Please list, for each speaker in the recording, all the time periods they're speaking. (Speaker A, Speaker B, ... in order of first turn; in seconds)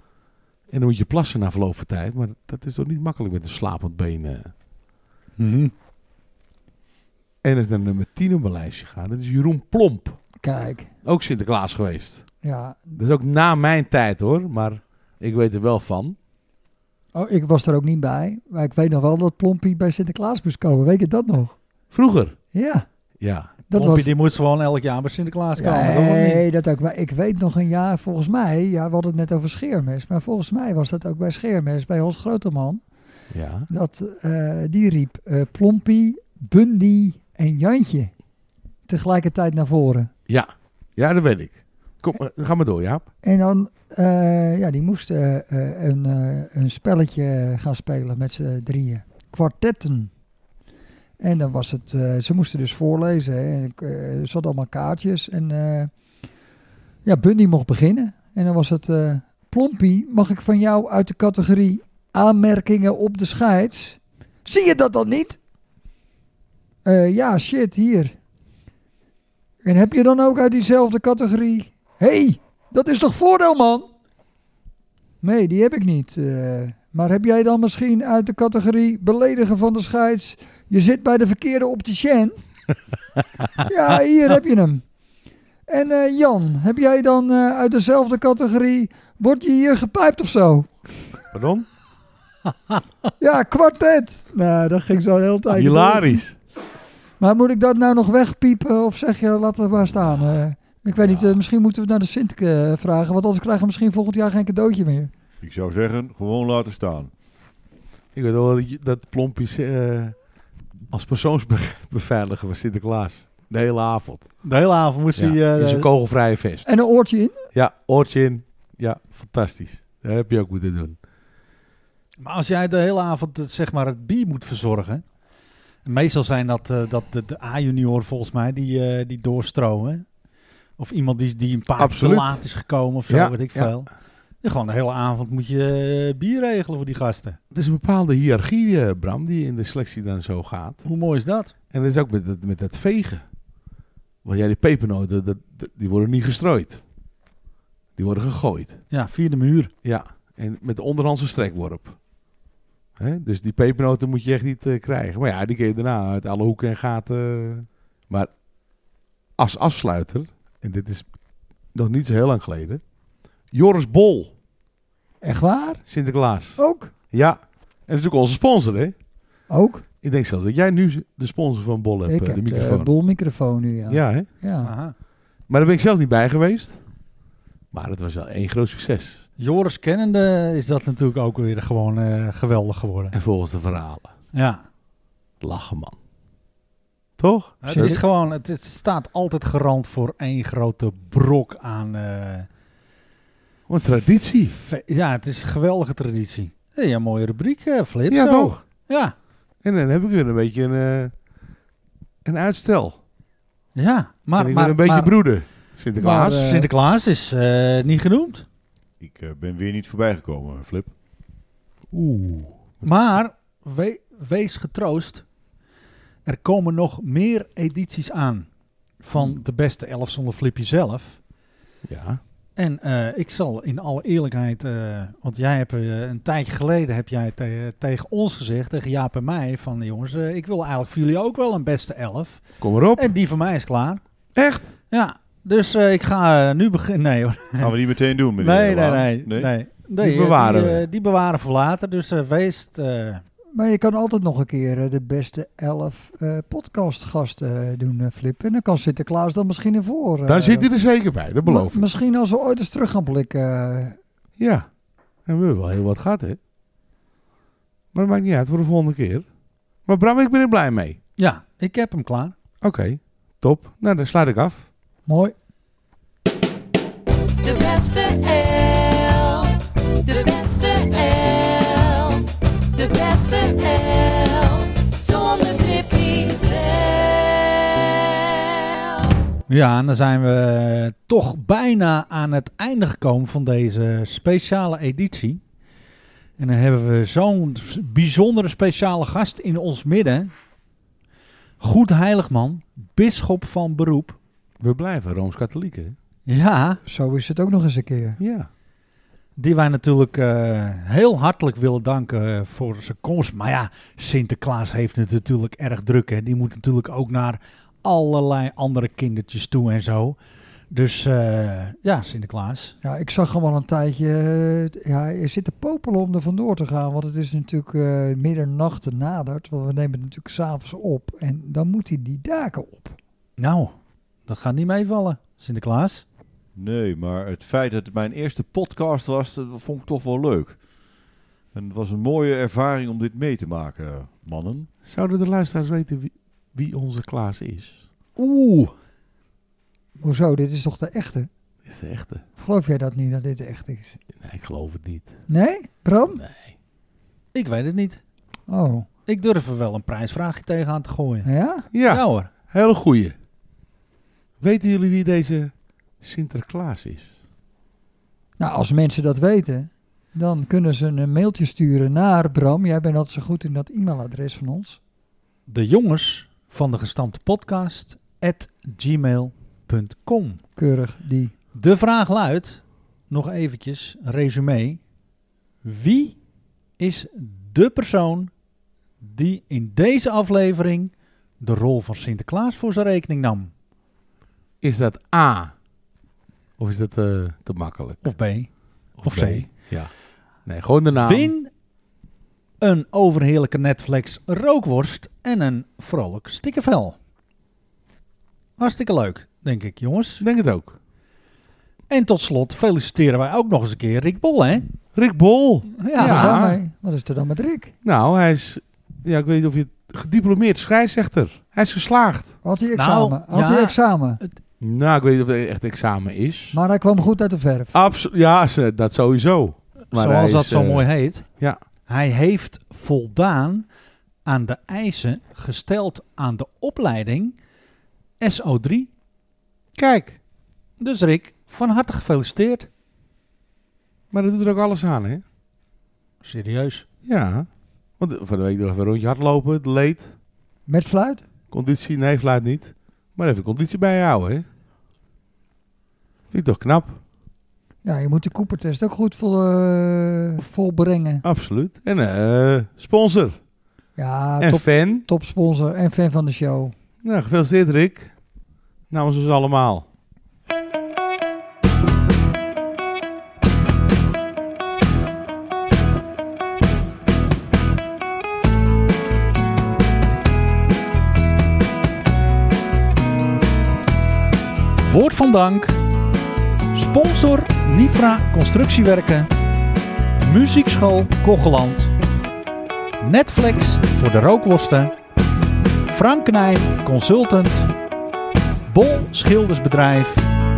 Speaker A: 0.7-4.5, 7.4-10.2, 11.0-12.2, 12.9-16.1, 21.9-22.4, 23.2-23.5, 33.3-33.7, 40.3-43.1, 91.3-91.7, 95.5-96.3, 101.0-101.3, 108.1-110.2, 110.9-114.3, 115.2-116.7, 117.5-121.0, 131.8-132.4, 133.1-133.8, 137.5-140.8, 141.7-143.2, 144.2-146.8, 148.0-148.8, 149.8-152.0, 153.0-158.3, 159.4-161.1, 161.7-162.8, 163.5-164.3, 165.8-168.9, 170.0-172.9, 173.9-174.3, 175.5-176.8, 177.7-179.2, 183.1-184.1, 185.4-185.9, 187.2-188.0, 193.7-194.6, 198.1-198.6, 199.6-201.1, 202.2-203.0, 204.4-206.7, 211.9-212.6, 221.8-222.2, 232.6-233.1, 234.3-234.7, 240.0-240.8, 250.2-251.9, 254.4-254.7, 255.2-256.4, 257.9-259.2, 259.9-261.0, 262.6-264.7, 294.6-295.9, 298.2-298.5, 334.9-337.8, 341.6-342.2, 344.1-345.1, 346.1-346.5, 351.7-353.1, 354.4-357.1, 384.6-385.5, 386.6-388.0, 389.0-389.9, 390.4-391.3, 400.2-400.8, 404.9-406.6, 407.8-412.4, 414.6-416.6, 417.7-421.6, 429.8-430.2, 434.1-435.2, 437.0-437.5, 438.0-440.1, 441.5-444.4, 446.3-447.0, 451.2-453.4, 454.4-455.1, 457.0-458.1, 458.9-459.9
Speaker B: 5.4-5.7, 23.7-26.4, 114.4-115.9, 122.2-125.0, 125.8-130.0, 130.8-133.9, 134.4-137.4, 140.8-141.5, 148.9-149.7, 174.6-174.9, 179.4-183.2, 184.3-184.6, 187.6-192.5, 194.6-199.1, 203.8-205.2, 206.0-208.4, 212.8-215.2, 216.2-218.5, 219.0-221.2, 222.6-232.4, 232.9-234.0, 234.9-237.7, 238.4-243.2, 261.2-262.3, 265.1-265.3, 279.5-285.4, 286.4-290.3, 291.6-294.2, 296.2-296.8, 299.4-310.2, 310.7-312.8, 323.4-323.7, 324.3-326.0, 347.3-348.0, 349.1-351.3, 351.9-352.3, 365.5-370.4, 371.5-374.8, 375.6-376.2, 376.8-378.3, 379.0-383.5, 388.0-388.5, 389.0-389.5, 391.0-391.5, 392.6-397.0, 398.6-400.2, 401.9-404.7, 405.8-406.4, 412.7-414.3, 419.9-421.2, 421.9-423.7, 424.2-427.3, 428.2-428.9, 430.8-432.7, 436.2-436.9, 474.8-475.8, 476.7-479.3, 480.2-481.9, 483.0-484.9, 485.9-487.7, 488.7-490.3
Speaker C: 10.4-10.9, 12.4-13.0, 17.1-21.6, 22.5-22.9, 23.7-24.1, 25.6-32.8, 33.7-38.1, 38.9-40.1, 43.2-50.1, 51.2-55.9, 57.0-65.4, 66.8-68.1, 69.6-73.9, 75.2-82.4, 83.6-84.8, 85.7-90.7, 93.2-96.2, 97.2-105.1, 116.7-117.4, 165.2-165.8, 166.6-166.9, 169.5-169.8, 172.1-174.7, 187.7-188.0, 206.1-206.6, 243.5-250.7, 251.4-254.0, 296.9-298.2, 312.8-323.0, 340.0-341.3, 342.4-344.0, 345.3-346.2, 348.5-348.9, 351.2-351.7, 358.4-364.8, 370.6-371.3, 406.0-407.7, 412.4-414.2, 416.5-417.7, 440.7-441.2, 447.8-451.2, 454.0-456.7
Speaker D: 105.4-107.1, 209.0-210.9, 237.6-239.5, 326.6-330.6, 331.5-334.7
Speaker E: 267.4-279.1